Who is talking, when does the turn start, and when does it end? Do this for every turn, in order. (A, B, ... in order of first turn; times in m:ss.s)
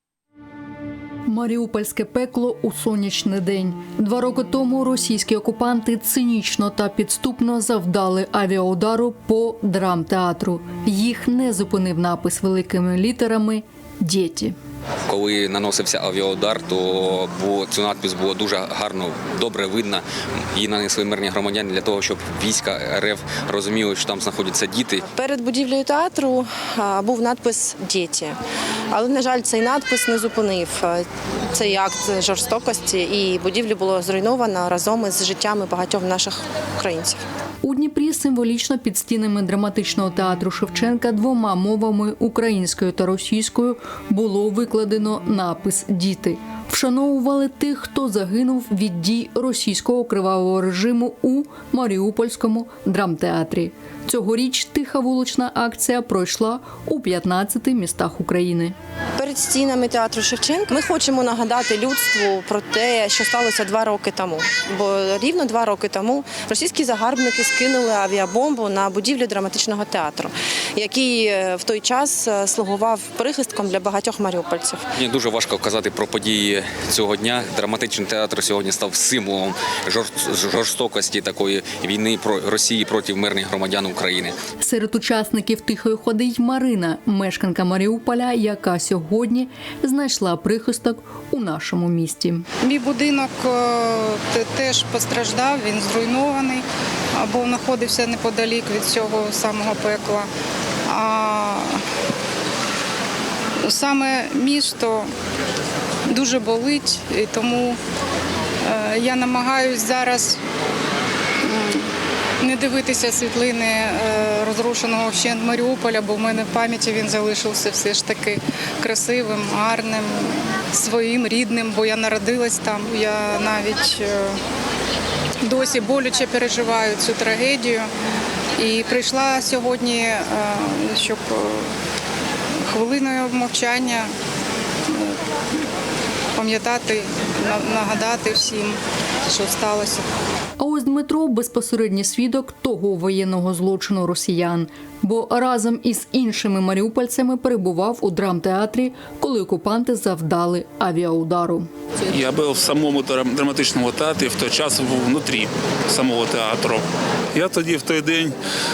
0:01.3-0:14.6 A
0:15.1-0:25.0 B
0:25.0-0:28.4 C
0:28.9-0:37.2 C
0:37.6-0:58.7 A
0:59.2-1:14.9 C
1:15.0-1:24.4 B
1:24.6-1:32.4 A
1:32.6-1:36.6 D
1:37.2-1:40.3 D
1:40.9-1:41.8 D
1:43.6-1:45.1 D
1:46.1-1:47.8 D
1:48.6-1:50.4 D
1:51.4-2:04.4 D
2:05.4-2:07.9 D
2:08.6-2:11.7 D
2:12.7-2:14.1 D
2:14.9-2:15.2 D
2:16.4-2:20.1 D
2:20.6-2:31.7 A
2:32.1-2:38.3 E